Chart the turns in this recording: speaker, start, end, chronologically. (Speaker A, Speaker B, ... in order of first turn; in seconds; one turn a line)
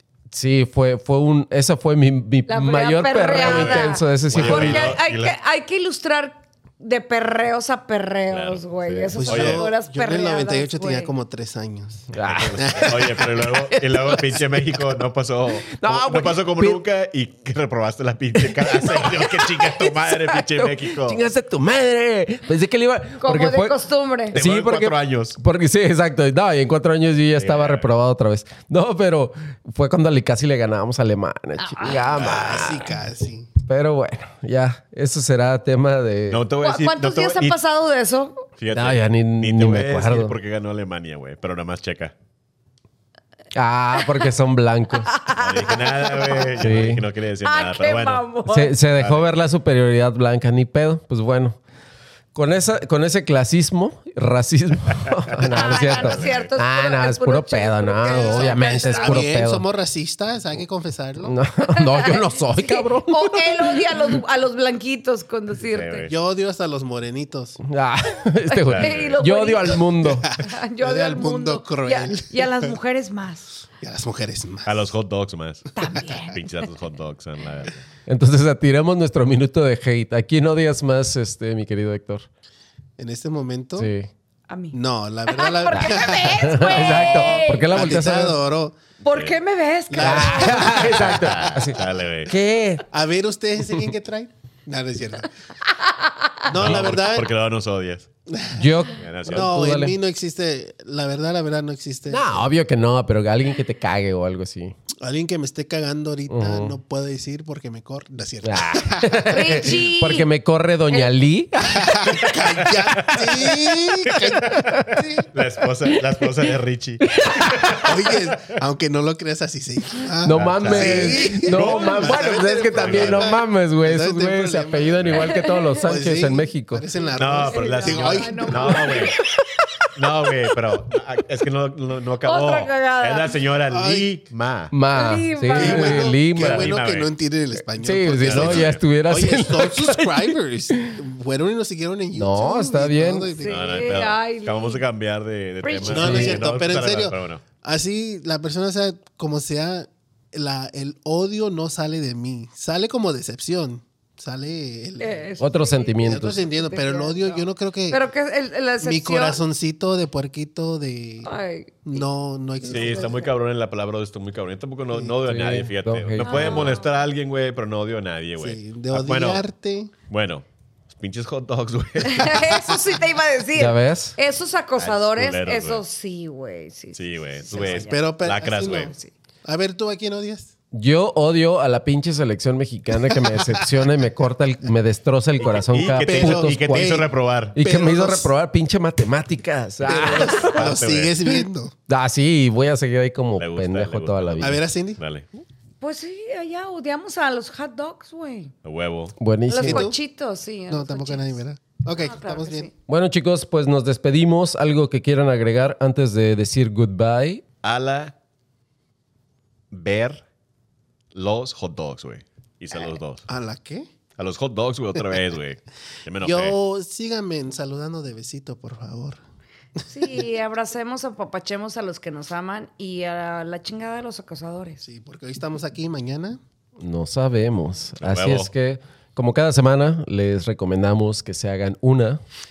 Speaker A: 0.3-4.9
Speaker B: 2.5-11.1
Speaker C: 3.3-5.3
Speaker C: 8.3-9.7
Speaker D: 9.2-13.3
Speaker A: 12.1-14.9
Speaker C: 12.2-21.2
Speaker A: 15.7-16.8
Speaker A: 18.4-23.8
Speaker B: 23.2-24.4
Speaker A: 24.3-32.9
Speaker C: 24.3-25.4
Speaker C: 27.4-27.9
Speaker B: 31.6-32.2
Speaker D: 32.0-33.5
Speaker C: 32.1-32.8
Speaker A: 33.6-36.4
Speaker C: 36.3-37.6
Speaker B: 36.6-38.4
Speaker C: 38.6-42.1
Speaker A: 38.7-40.4
Speaker A: 43.5-45.2
Speaker B: 45.1-46.5
Speaker C: 45.4-48.2
Speaker A: 46.6-47.0
Speaker B: 47.4-48.8
Speaker A: 48.5-51.6
Speaker C: 49.0-49.3
Speaker A: 52.3-59.6
Speaker C: 55.0-56.5
Speaker B: 55.5-59.2
Speaker D: 58.1-61.4
Speaker A: 61.2-63.9
Speaker B: 61.8-66.1
Speaker C: 65.6-66.1
Speaker D: 66.1-67.6
Speaker A: 67.7-70.4
Speaker B: 68.5-73.6
Speaker C: 68.6-69.2
Speaker D: 70.0-72.8
Speaker D: 73.8-74.9
Speaker C: 74.7-77.8
Speaker B: 75.8-76.4
Speaker A: 78.1-82.3
Speaker D: 83.0-83.9
Speaker A: 83.8-84.1
Speaker B: 84.5-87.7
Speaker D: 84.7-88.8
Speaker A: 85.7-88.4
Speaker B: 89.0-90.9
Speaker D: 89.9-91.5
Speaker A: 90.0-92.8
Speaker C: 90.8-92.3
Speaker D: 92.9-95.3
Speaker B: 95.8-96.4
Speaker D: 96.5-97.3
Speaker C: 96.5-98.1
Speaker D: 98.3-98.7
Speaker A: 98.6-100.0
Speaker C: 99.0-99.5
Speaker D: 99.3-102.5
Speaker A: 102.1-104.7
Speaker D: 105.0-109.7
Speaker A: 106.3-106.8
Speaker A: 108.4-112.0
Speaker B: 109.3-110.3
Speaker D: 111.6-115.3
Speaker C: 112.1-118.5
Speaker A: 114.6-115.0
Speaker A: 117.0-117.8
Speaker D: 117.8-125.3
Speaker A: 120.2-126.9
Speaker C: 120.3-123.4
Speaker C: 125.0-125.3
Speaker B: 125.1-125.8
Speaker D: 125.8-129.0
Speaker C: 127.2-129.2
Speaker B: 127.4-129.2
Speaker A: 129.4-129.9
Speaker C: 129.9-134.7
Speaker B: 132.2-133.4
Speaker D: 133.7-134.1
Speaker A: 134.7-136.8
Speaker B: 134.9-136.2
Speaker D: 135.5-143.9
Speaker C: 135.6-137.1
Speaker A: 137.7-141.0
Speaker C: 138.2-138.8
Speaker A: 142.2-143.4
Speaker B: 143.3-144.8
Speaker C: 143.4-147.4
Speaker B: 145.6-146.4
Speaker D: 145.8-155.2
Speaker A: 146.0-146.4
Speaker B: 155.0-159.4
Speaker A: 155.4-156.4
Speaker D: 156.0-158.0
Speaker D: 158.8-161.3
Speaker B: 161.2-162.1
Speaker D: 161.8-163.2
Speaker B: 162.6-163.3
Speaker C: 162.7-169.4
Speaker A: 165.2-166.8
Speaker B: 166.2-167.1
Speaker D: 168.4-169.9
Speaker C: 170.1-172.8
Speaker B: 172.1-178.1
Speaker A: 173.6-174.2
Speaker C: 174.8-175.8
Speaker C: 176.9-178.9
Speaker D: 177.5-180.5
Speaker B: 178.6-179.1
Speaker A: 180.7-187.0
Speaker D: 183.1-183.9
Speaker C: 185.4-187.6
Speaker D: 186.0-188.3
Speaker A: 187.6-190.8
Speaker C: 189.8-191.2
Speaker D: 189.8-191.7
Speaker A: 191.9-194.6
Speaker C: 193.4-195.3
Speaker D: 194.4-195.0
Speaker B: 195.8-198.5
Speaker C: 198.6-199.2
Speaker A: 199.2-199.9
Speaker B: 199.5-201.4
Speaker D: 199.6-200.0
Speaker D: 200.7-202.7
Speaker B: 201.9-202.7
Speaker A: 202.9-207.4
Speaker C: 207.6-208.1
Speaker C: 209.7-210.2
Speaker C: 211.1-213.2
Speaker D: 213.3-213.9
Speaker C: 214.2-216.6
Speaker D: 216.2-219.2
Speaker D: 219.8-220.2
Speaker B: 219.9-224.8
Speaker D: 224.8-226.4
Speaker A: 226.8-232.2
Speaker C: 228.0-228.5